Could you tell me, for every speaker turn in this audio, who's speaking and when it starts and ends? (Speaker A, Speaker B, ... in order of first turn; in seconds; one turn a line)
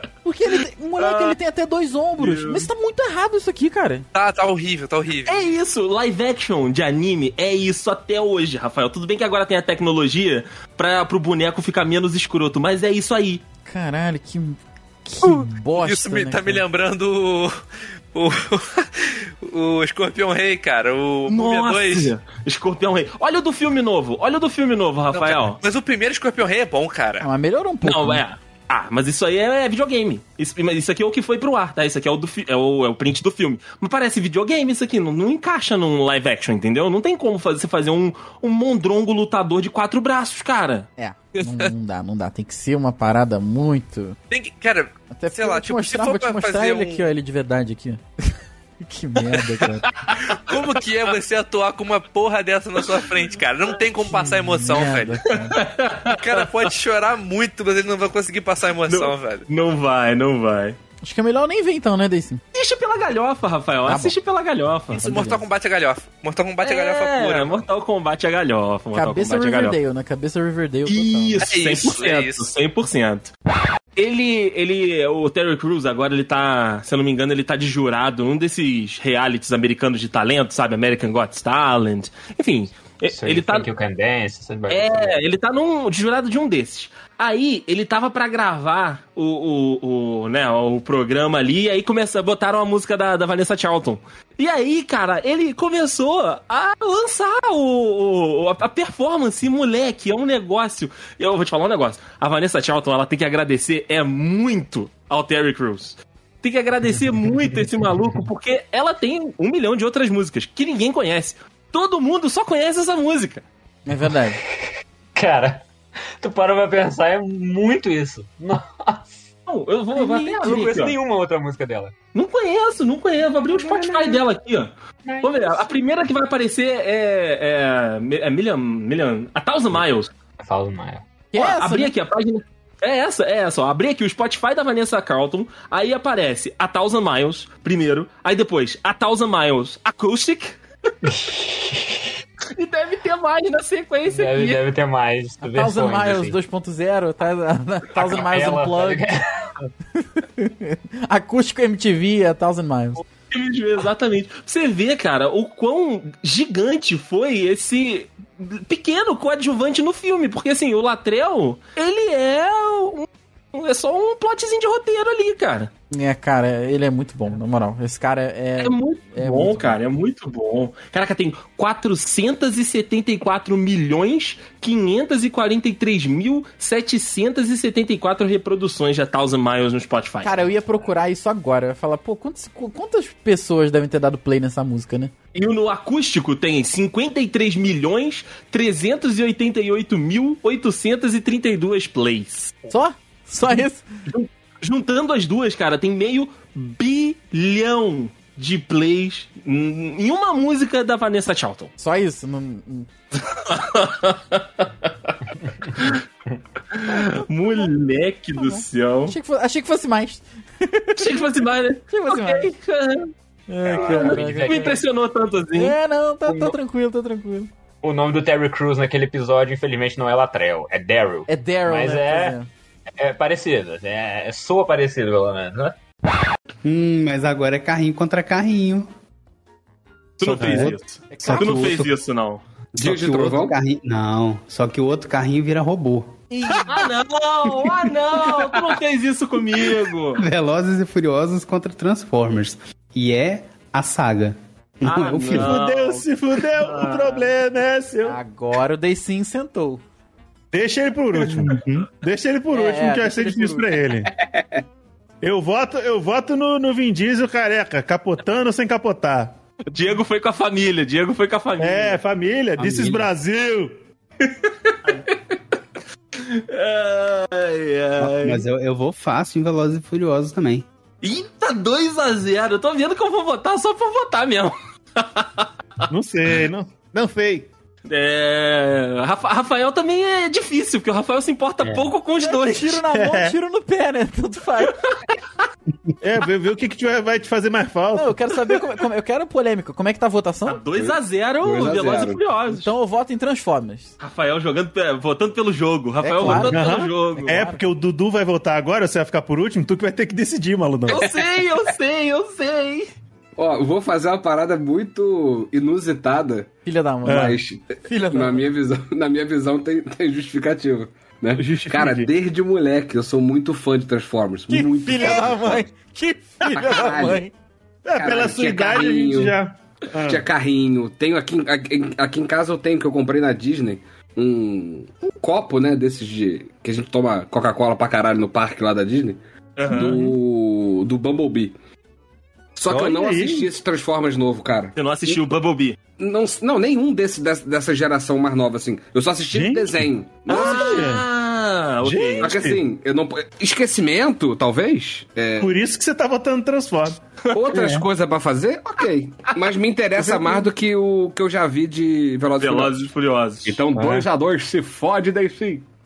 Speaker A: 0.2-4.0
Speaker B: 1.0-1.4
Speaker B: 2.2-2.7
Speaker C: 4.1-5.5
Speaker B: 5.2-13.4
Speaker A: 13.7-16.6
Speaker C: 15.2-17.6
Speaker C: 18.1-22.1
Speaker B: 21.3-25.6
Speaker C: 25.1-27.2
Speaker A: 27.2-28.2
Speaker B: 27.8-40.9
Speaker A: 41.0-44.2
Speaker C: 41.4-41.7
Speaker C: 44.3-47.0
Speaker A: 45.1-49.9
Speaker C: 50.3-55.2
Speaker A: 54.1-55.6
Speaker B: 55.4-56.5
Speaker C: 56.1-59.5
Speaker B: 58.9-60.8
Speaker A: 61.0-62.4
Speaker B: 62.5-65.1
Speaker A: 63.9-64.2
Speaker C: 64.9-67.6
Speaker A: 64.9-65.4
Speaker B: 66.6-69.8
Speaker A: 68.9-71.5
Speaker B: 70.9-73.3
Speaker C: 71.4-72.5
Speaker B: 74.0-83.7
Speaker D: 83.1-85.3
Speaker B: 84.7-113.4
Speaker A: 113.8-114.4
Speaker D: 115.1-115.6
Speaker D: 116.2-119.2
Speaker B: 119.5-121.0
Speaker D: 120.0-121.9
Speaker A: 120.0-120.8
Speaker B: 122.1-130.1
Speaker D: 123.5-124.2
Speaker D: 125.0-125.7
Speaker D: 130.4-131.1
Speaker A: 131.3-131.9
Speaker B: 131.3-140.6
Speaker D: 141.0-142.0
Speaker B: 142.5-144.7
Speaker D: 144.1-146.3
Speaker A: 145.4-149.1
Speaker D: 147.9-149.4
Speaker A: 150.0-153.0
Speaker B: 153.3-165.7
Speaker A: 165.9-169.8
Speaker B: 168.6-180.6
Speaker A: 180.2-185.1
Speaker B: 185.3-192.6
Speaker A: 192.7-193.9
Speaker B: 194.1-201.7
Speaker A: 201.8-202.9
Speaker B: 203.2-204.9
Speaker B: 205.8-206.0
Speaker B: 206.7-209.1
Speaker A: 208.3-211.2
Speaker B: 211.0-213.1
Speaker A: 211.9-212.5
Speaker A: 213.5-214.8
Speaker D: 213.6-214.8
Speaker B: 213.8-215.8
Speaker A: 215.6-217.5
Speaker D: 216.3-216.5
Speaker D: 217.8-222.4
Speaker A: 221.3-222.5
Speaker D: 223.0-225.8
Speaker E: 226.6-228.9
Speaker B: 230.2-232.4
Speaker E: 230.2-231.9
Speaker F: 230.3-230.7
Speaker A: 231.1-231.8
Speaker G: 232.7-233.6
Speaker E: 232.8-236.2
Speaker A: 236.3-236.8
Speaker B: 236.5-240.2
Speaker E: 240.2-245.6
Speaker B: 244.8-247.2
Speaker F: 245.3-248.2
Speaker A: 248.0-249.8
Speaker F: 250.5-254.1
Speaker A: 252.5-253.7
Speaker F: 255.2-259.3
Speaker B: 259.7-262.0
Speaker F: 261.6-263.7
Speaker E: 262.6-263.1
Speaker B: 264.2-265.1
Speaker B: 266.2-268.4
Speaker E: 268.0-270.6
Speaker B: 271.0-275.5
Speaker F: 275.9-277.5
Speaker B: 277.9-282.8
Speaker A: 282.2-284.8
Speaker F: 282.9-283.3
Speaker F: 286.0-288.2
Speaker A: 287.9-290.6
Speaker B: 290.5-292.7
Speaker G: 290.7-292.2
Speaker A: 292.5-293.9
Speaker B: 294.0-297.4
Speaker A: 296.0-297.6
Speaker F: 296.2-301.1
Speaker B: 300.9-302.9
Speaker G: 303.4-306.5
Speaker A: 306.6-308.4
Speaker F: 307.1-307.4
Speaker G: 307.1-315.6
Speaker F: 311.4-312.1
Speaker A: 314.5-317.3
Speaker G: 316.5-317.2
Speaker F: 317.8-320.2
Speaker G: 317.9-319.4
Speaker G: 320.0-331.5
Speaker B: 329.6-330.0
Speaker F: 329.7-330.1
Speaker G: 332.6-335.2
Speaker F: 332.7-333.5
Speaker B: 334.8-335.8
Speaker G: 336.0-341.0
Speaker F: 339.3-341.0
Speaker B: 340.3-342.3
Speaker F: 341.8-342.6
Speaker G: 342.2-345.5
Speaker F: 345.4-347.0
Speaker G: 347.3-352.8
Speaker F: 347.6-347.8
Speaker F: 349.9-350.5
Speaker B: 352.4-353.6
Speaker G: 353.4-355.6
Speaker F: 353.7-354.0